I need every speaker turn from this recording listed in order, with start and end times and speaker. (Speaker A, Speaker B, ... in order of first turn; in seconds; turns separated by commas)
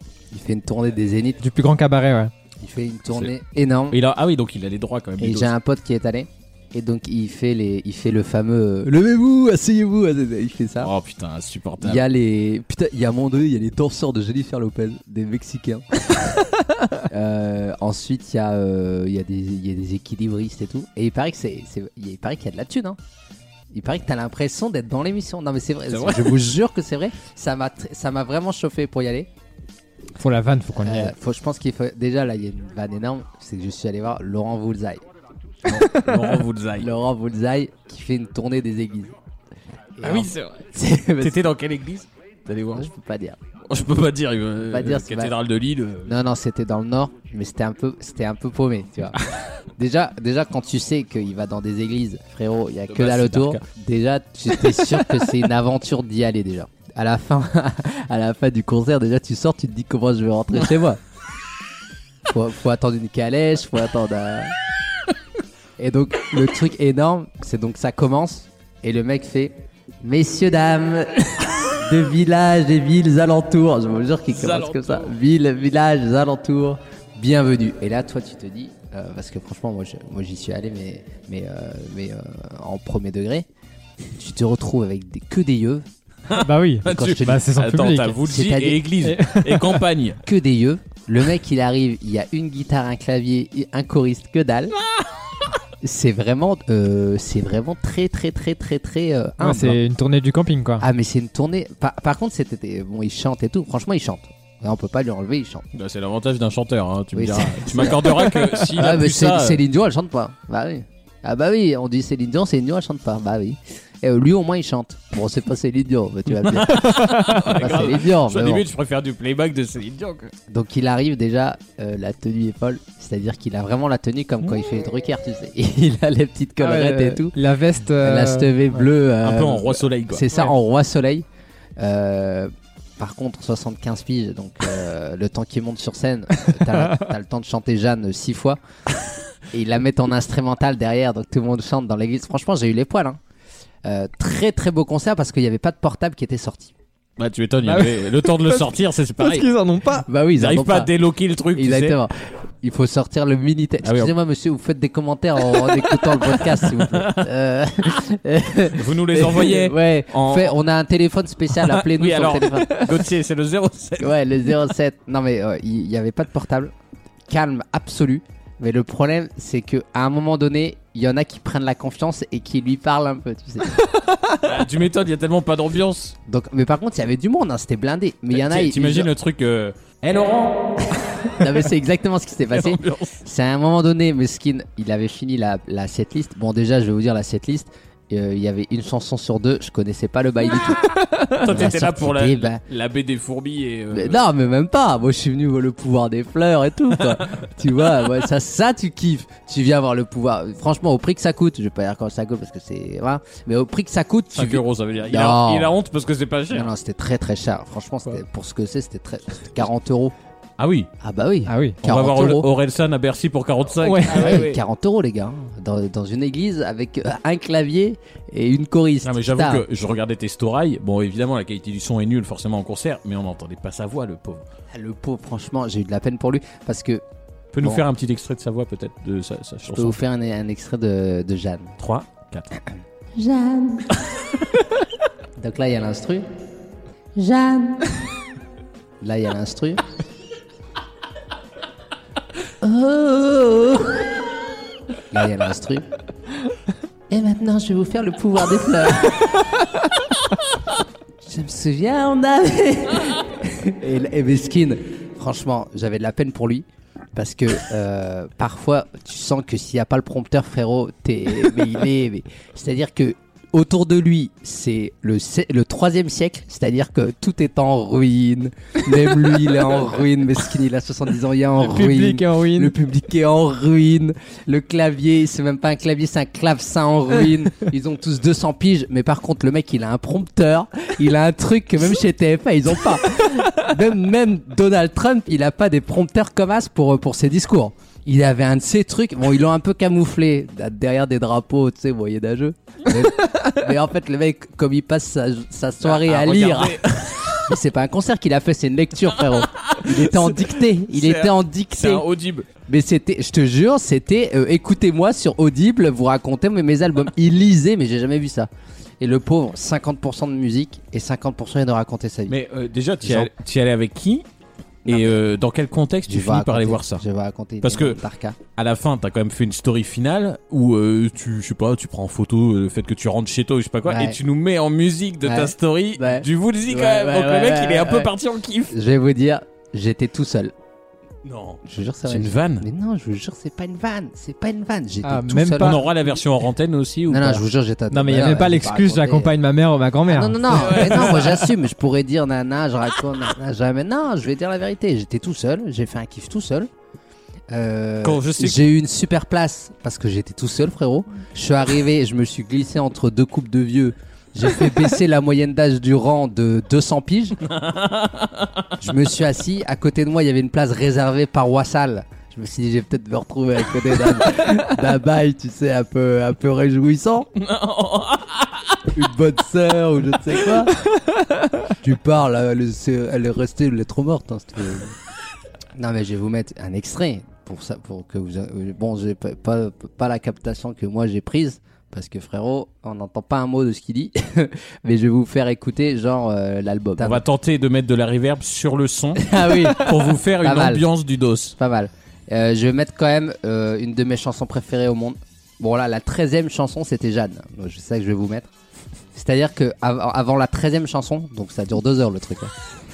Speaker A: 0.3-1.4, Speaker B: 1.4-2.3, Speaker A: 2.6-4.0, Speaker C: 3.9-5.5, Speaker A: 5.2-10.9, Speaker C: 10.8-12.0, Speaker A: 11.8-16.0, Speaker A: 17.0-23.0, Speaker A: 23.7-29.3, Speaker C: 25.9-26.4, Speaker B: 30.2-31.1, Speaker A: 30.8-35.0, Speaker A: 35.7-35.9, Speaker B: 35.8-36.2, Speaker C: 35.9-36.9, Speaker A: 36.8-39.1, Speaker A: 40.0-41.3, Speaker C: 40.0-40.6, Speaker C: 41.2-42.9, Speaker A: 42.7-43.4, Speaker C: 43.7-46.2, Speaker A: 44.7-45.4, Speaker A: 46.1-49.2, Speaker A: 49.8-61.0, Speaker C: 52.9-53.6, Speaker A: 62.3-64.5, Speaker A: 65.8-83.5, Speaker C: 74.3-75.1, Speaker A: 84.2-85.9, Speaker C: 86.3-90.2, Speaker B: 86.4-88.3, Speaker A: 86.9-87.5, Speaker A: 88.3-88.8, Speaker B: 89.0-89.8, Speaker A: 90.2-94.8, Speaker A: 95.8-99.8, Speaker B: 99.4-100.8, Speaker A: 100.8-105.7, Speaker C: 105.7-109.6, Speaker A: 107.2-117.0, Speaker C: 116.3-120.3, Speaker B: 116.8-117.5, Speaker A: 117.5-118.6, Speaker A: 120.5-127.4, Speaker B: 126.6-128.6, Speaker A: 128.0-131.2, Speaker C: 129.2-130.5, Speaker A: 131.8-138.6, Speaker A: 139.5-143.2, Speaker A: 143.8-146.7, Speaker C: 147.2-149.5, Speaker B: 147.6-150.1, Speaker A: 150.1-150.9, Speaker C: 150.4-152.0, Speaker A: 151.6-162.9, Speaker C: 153.8-154.1, Speaker C: 155.5-157.2, Speaker C: 158.7-160.6, Speaker C: 161.6-164.2, Speaker A: 164.0-166.7, Speaker A: 167.3-173.8, Speaker C: 174.4-176.2, Speaker A: 176.3-179.1, Speaker C: 178.3-180.6, Speaker A: 181.3-192.6, Speaker C: 182.5-183.2, Speaker C: 191.4-194.3, Speaker A: 193.9-205.7, Speaker C: 204.3-206.7, Speaker A: 206.5-210.1, Speaker C: 210.6-210.9, Speaker A: 211.0-212.5, Speaker B: 211.5-211.8, Speaker C: 211.8-214.6, Speaker B: 213.8-214.5, Speaker A: 214.1-219.6, Speaker C: 219.0-224.4, Speaker A: 224.7-227.0, Speaker C: 227.5-230.0, Speaker A: 229.7-231.7, Speaker C: 231.8-232.5, Speaker A: 233.2-233.9, Speaker A: 235.4-236.3, Speaker A: 237.2-237.9, Speaker A: 239.0-239.8, Speaker A: 242.6-244.1, Speaker A: 245.1-245.8, Speaker A: 247.1-249.4, Speaker A: 251.2-296.9, Speaker B: 271.6-272.8, Speaker C: 295.8-297.4, Speaker A: 297.4-302.0, Speaker C: 299.4-302.5, Speaker A: 302.7-308.5, Speaker A: 309.0-312.4, Speaker C: 312.3-314.2, Speaker A: 313.0-313.3, Speaker A: 314.9-315.2, Speaker C: 314.9-317.0, Speaker A: 316.1-318.4, Speaker C: 317.6-318.0, Speaker C: 318.6-328.8, Speaker A: 323.9-324.2, Speaker A: 325.2-328.1, Speaker A: 328.7-330.5, Speaker C: 331.2-332.6, Speaker A: 331.6-335.8, Speaker B: 335.0-335.9, Speaker C: 335.6-337.4, Speaker A: 337.1-339.4, Speaker B: 337.9-341.2, Speaker A: 340.1-346.7, Speaker C: 340.5-341.5, Speaker A: 347.5-357.4, Speaker C: 348.0-348.7, Speaker C: 357.5-358.6, Speaker A: 358.8-367.3, Speaker C: 367.4-368.8, Speaker A: 368.9-370.8, Speaker B: 371.1-371.4, Speaker A: 371.8-374.9, Speaker A: 375.8-387.2, Speaker C: 387.0-391.6, Speaker A: 389.2-390.8, Speaker A: 391.6-398.5, Speaker A: 399.1-402.5